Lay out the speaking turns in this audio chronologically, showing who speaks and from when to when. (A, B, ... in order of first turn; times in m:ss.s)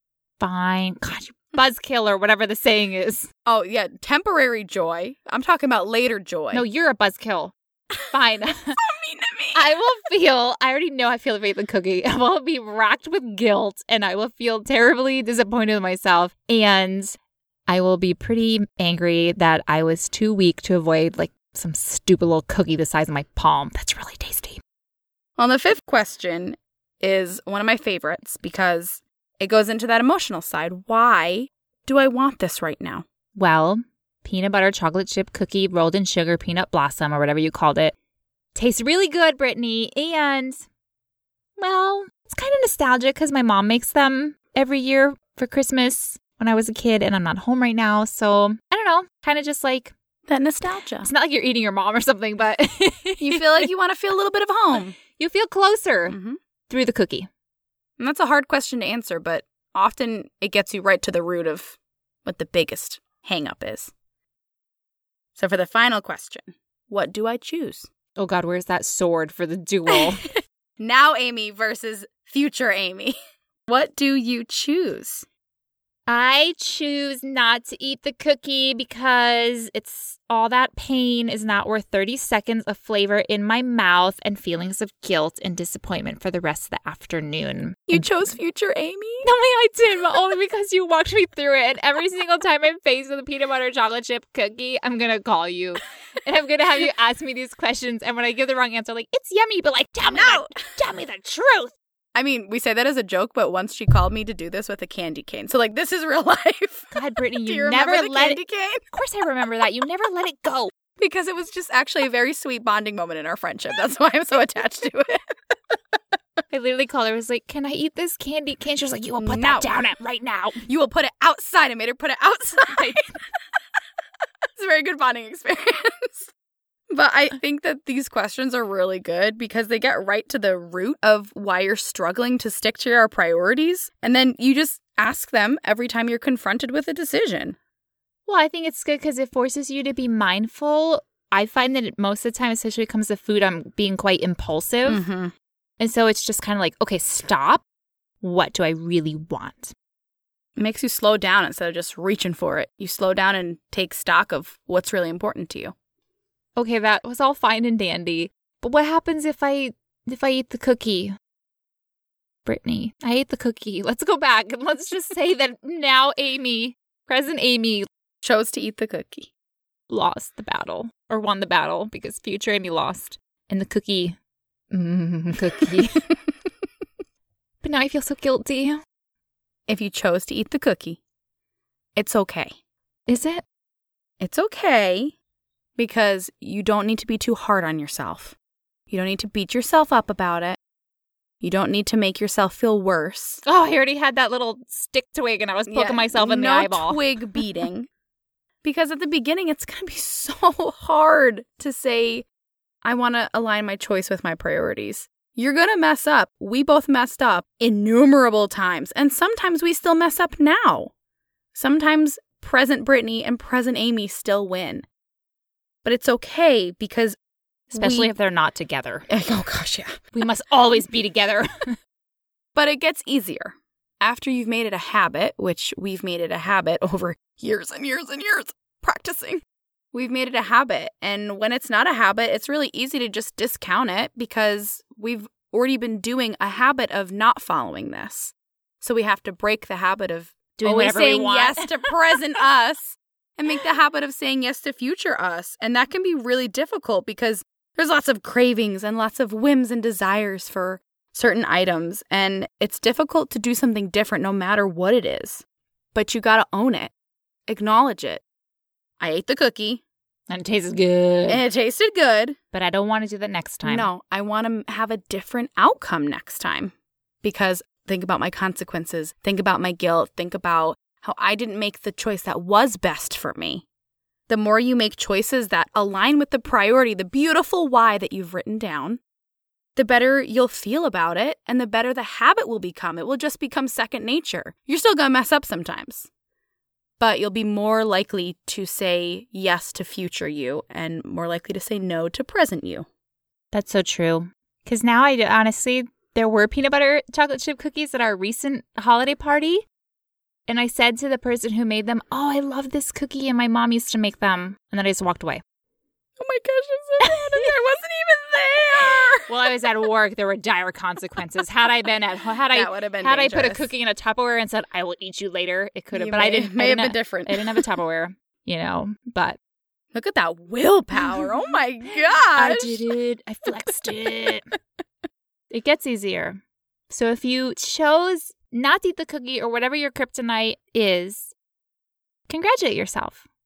0:00.4-0:03.3 A
0:03.5-0:06.6 B
0:06.5-0:07.6 A
0:08.1-0:08.8 A
0:08.8-0:09.6 B
0:09.5-0:24.6 A
0:25.4-0:33.0 B
0:33.4-0:38.0 A
0:38.6-0:40.7 A
0:41.6-0:49.9 A
0:50.3-0:51.1 B
0:51.0-0:53.7 A
0:53.2-0:55.0 B
0:55.1-0:56.2 A
0:56.1-0:56.4 B
0:56.7-0:57.3 A
0:58.0-1:03.9 B
1:05.4-1:07.9 B
1:08.2-1:10.2 A
1:09.9-1:13.2 B
1:13.7-1:15.3 B
1:16.1-1:28.3 A
1:27.9-1:29.3 B
1:29.2-1:41.8 A
1:40.1-1:40.7 B
1:42.1-1:48.8 B
1:46.9-1:50.7 A
1:51.0-1:55.4 B
1:56.5-2:00.6 A
1:59.2-1:59.8 B
2:00.6-2:03.6 B
2:02.7-2:03.0 A
2:04.6-2:06.3 B
2:06.9-2:17.6 B
2:18.3-2:25.0 A
2:24.9-2:25.3 B
2:25.8-2:27.6 A
2:28.2-2:29.7 A
2:30.6-2:35.7 B
2:36.6-2:41.2 A
2:42.5-2:47.9 A
2:48.2-2:49.3 B
2:49.9-2:54.2 A
2:54.7-2:56.1 A
2:57.6-2:58.8 A
2:59.7-3:01.0 B
3:02.0-3:02.5 B
3:03.1-3:03.4 A
3:04.2-3:05.1 B
3:05.8-3:08.4 B
3:08.9-3:10.6 B
3:11.4-3:13.4 B
3:13.4-3:17.4 A
3:15.7-3:17.9 B
3:18.6-3:22.3 B
3:22.8-3:30.9 B
3:31.5-3:34.9 B
3:35.8-3:37.2 B
3:37.7-3:38.1 B
3:37.7-3:39.1 A
3:39.1-3:40.0 B
3:40.1-3:41.8 A
3:42.6-3:49.4 B
3:49.9-4:15.4 B
4:00.6-4:01.9 A
4:15.9-4:16.9 B
4:17.5-4:18.2 B
4:19.0-4:19.8 B
4:20.3-4:21.4 A
4:21.3-4:22.4 B
4:22.5-4:23.9 A
4:23.6-4:33.6 B
4:34.3-4:39.0 B
4:39.8-4:46.1 B
4:47.0-4:52.9 B
4:53.5-4:59.6 A
5:00.5-5:05.4 A
5:06.2-5:09.3 B
5:07.0-5:07.5 A
5:09.3-5:19.4 A
5:12.5-5:13.7 B
5:15.9-5:17.6 B
5:19.9-5:22.8 B
5:22.3-5:24.5 A
5:25.5-5:31.3 A
5:32.3-5:33.2 A